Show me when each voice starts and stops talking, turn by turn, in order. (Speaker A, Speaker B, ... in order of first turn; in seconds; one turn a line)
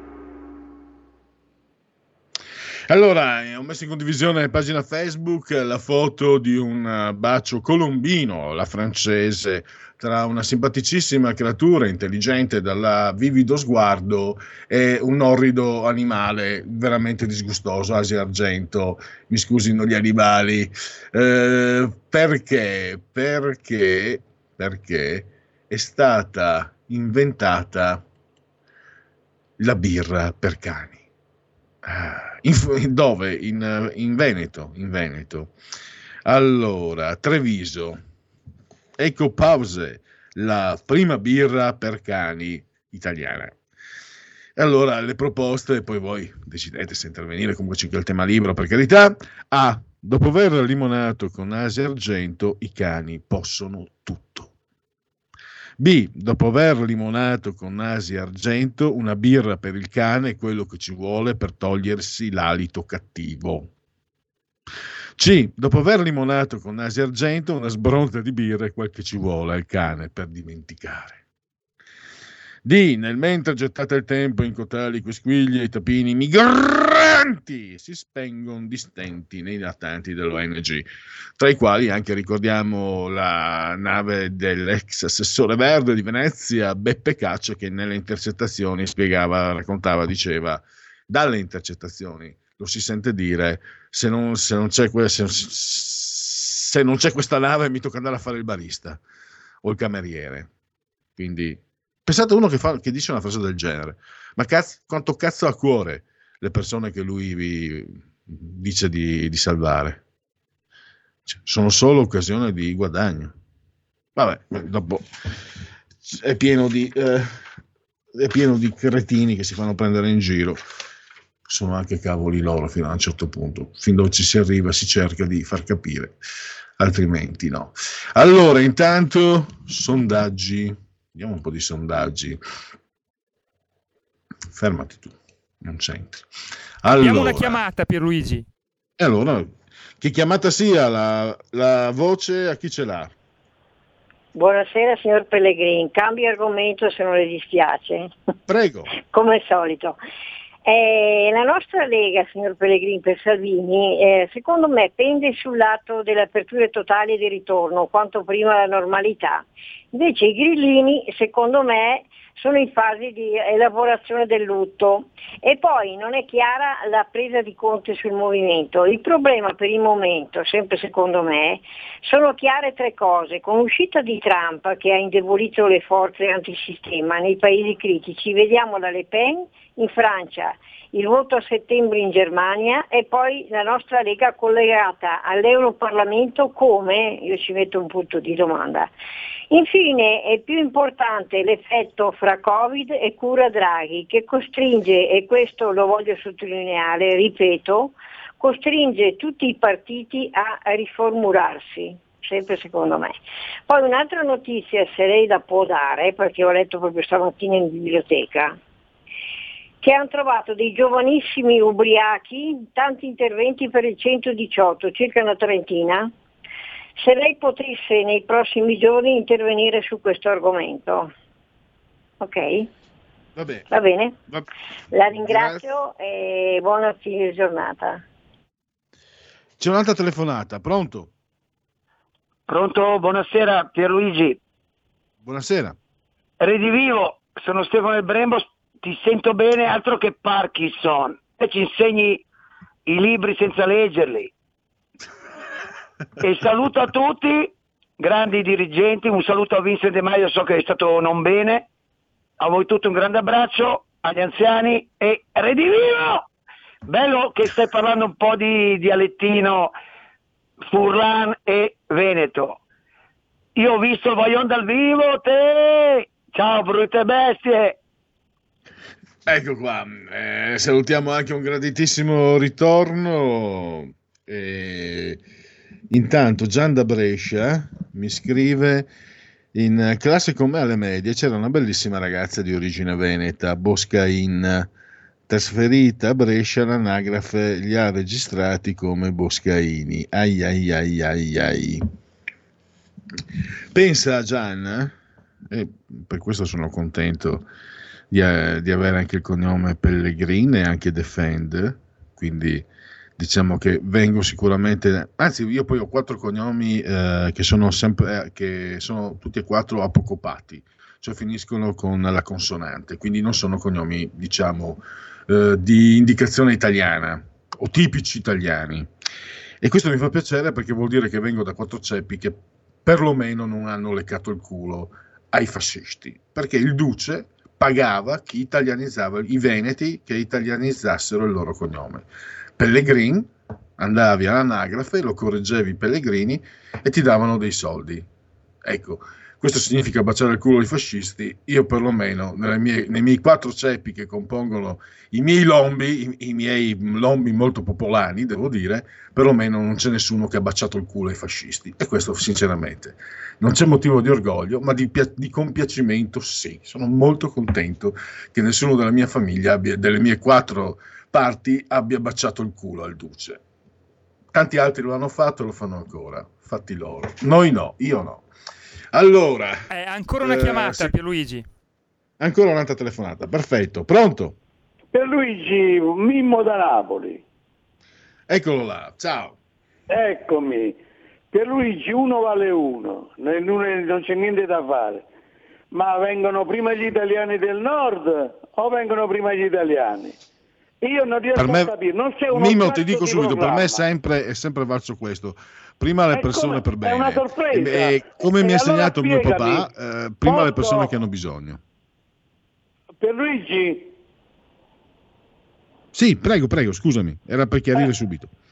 Speaker A: 2.9-28.0
Speaker A: 29.6-31.0
Speaker A: 31.8-35.5
Speaker A: 36.3-38.0
Speaker A: 39.0-43.6
Speaker A: 44.6-54.5
Speaker A: 55.8-63.7
Speaker A: 65.2-71.2
Speaker A: 72.7-80.9
Speaker A: 81.4-99.0
Speaker A: 99.6-100.5
Speaker A: 101.2-110.0
Speaker A: 111.3-113.3
Speaker A: 114.2-115.1
Speaker A: 116.0-117.5
Speaker A: 118.1-120.6
Speaker A: 121.5-126.2
Speaker A: 126.8-132.4
Speaker A: 134.5-136.3
Speaker A: 136.8-137.6
Speaker B: 136.9-138.4
Speaker A: 139.0-143.1
Speaker C: 144.3-148.1
Speaker A: 148.5-148.9
Speaker C: 149.0-150.0
Speaker C: 150.7-188.9
Speaker C: 189.5-203.2
Speaker C: 203.7-208.6
Speaker C: 209.8-216.1
Speaker C: 217.0-221.1
Speaker C: 222.2-222.7
Speaker A: 223.4-223.7
Speaker C: 223.7-224.2
Speaker C: 224.9-228.0
Speaker A: 225.2-225.6
Speaker A: 229.6-231.1
Speaker D: 232.5-234.4
Speaker A: 235.2-235.8
Speaker D: 236.4-242.2
Speaker D: 242.9-244.3
Speaker D: 246.2-251.7
Speaker D: 252.4-256.2
Speaker D: 256.9-259.7
Speaker D: 260.7-262.6
Speaker D: 263.6-267.8
Speaker A: 269.3-275.2
Speaker A: 275.9-278.9
Speaker A: 279.5-284.7
Speaker A: 285.3-291.9
Speaker A: 293.7-294.9
Speaker A: 295.5-297.5
Speaker A: 298.1-302.6
Speaker A: 303.2-318.9
Speaker A: 319.6-332.1
Speaker A: 332.6-338.1
Speaker A: 338.6-363.4
Speaker A: 364.3-368.2
Speaker A: 368.9-369.6
Speaker B: 369.7-371.4
Speaker A: 370.2-370.9
Speaker A: 372.2-374.4
Speaker E: 374.9-377.2
Speaker A: 378.3-379.4
Speaker E: 379.9-380.8
Speaker E: 381.3-385.1
Speaker E: 385.7-390.2
Speaker E: 390.8-393.8
Speaker A: 391.4-391.7
Speaker A: 392.3-401.6
Speaker E: 396.1-399.7
Speaker E: 400.2-400.9
Speaker E: 403.0-403.9
Speaker A: 405.9-408.3